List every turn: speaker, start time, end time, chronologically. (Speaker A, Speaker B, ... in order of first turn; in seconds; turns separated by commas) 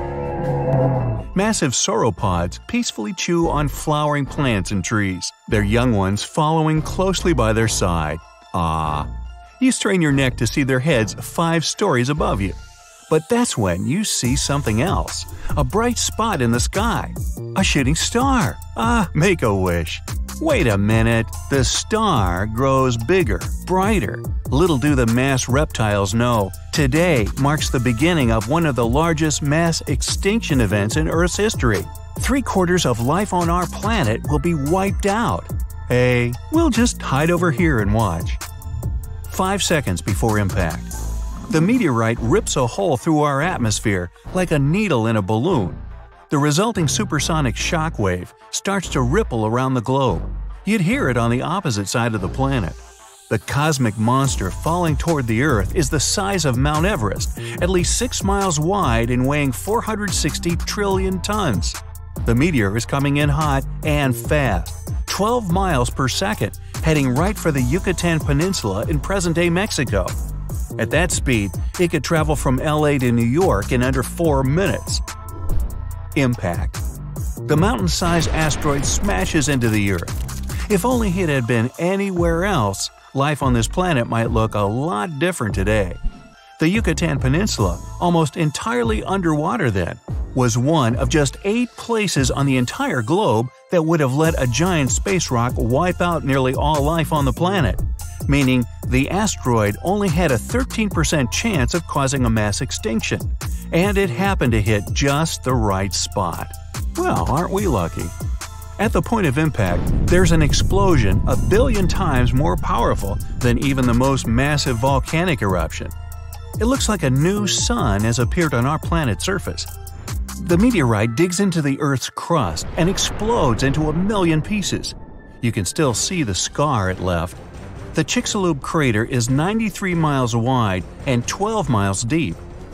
Speaker A: 1.3-12.6, Speaker A: 13.1-38.4, Speaker A: 39.3-40.9, Speaker A: 41.5-70.2, Speaker A: 70.8-75.0, Speaker A: 76.1-76.8, Speaker A: 77.5-86.0, Speaker A: 86.6-108.1, Speaker A: 108.8-115.9, Speaker A: 116.6-119.7, Speaker A: 120.4-127.4, Speaker A: 127.9-132.4